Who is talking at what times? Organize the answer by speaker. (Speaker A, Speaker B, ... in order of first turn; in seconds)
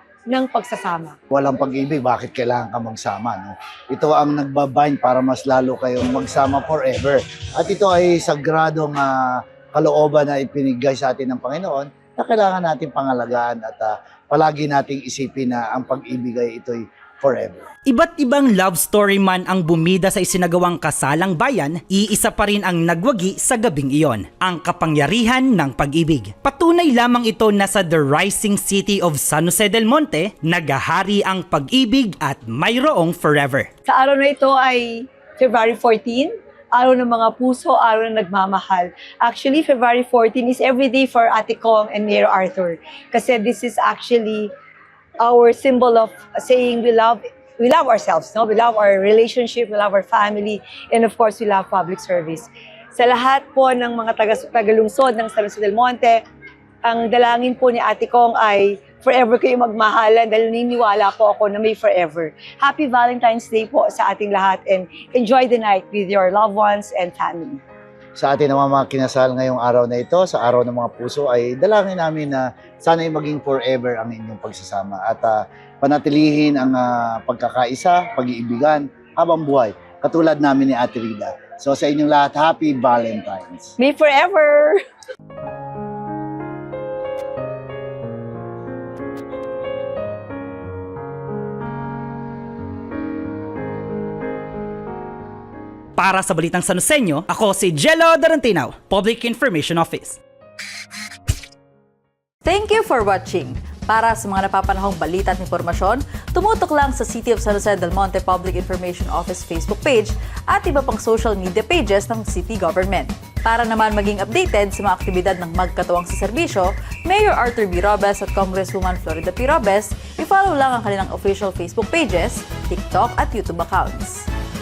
Speaker A: 0.3-1.2, 33.9-44.5, 45.2-56.2, 56.8-67.6, 83.8-84.8
Speaker B: 1.3-9.2, 9.7-17.6, 68.2-83.7
Speaker C: 17.9-33.7, 96.0-100.2
Speaker D: 102.4-124.3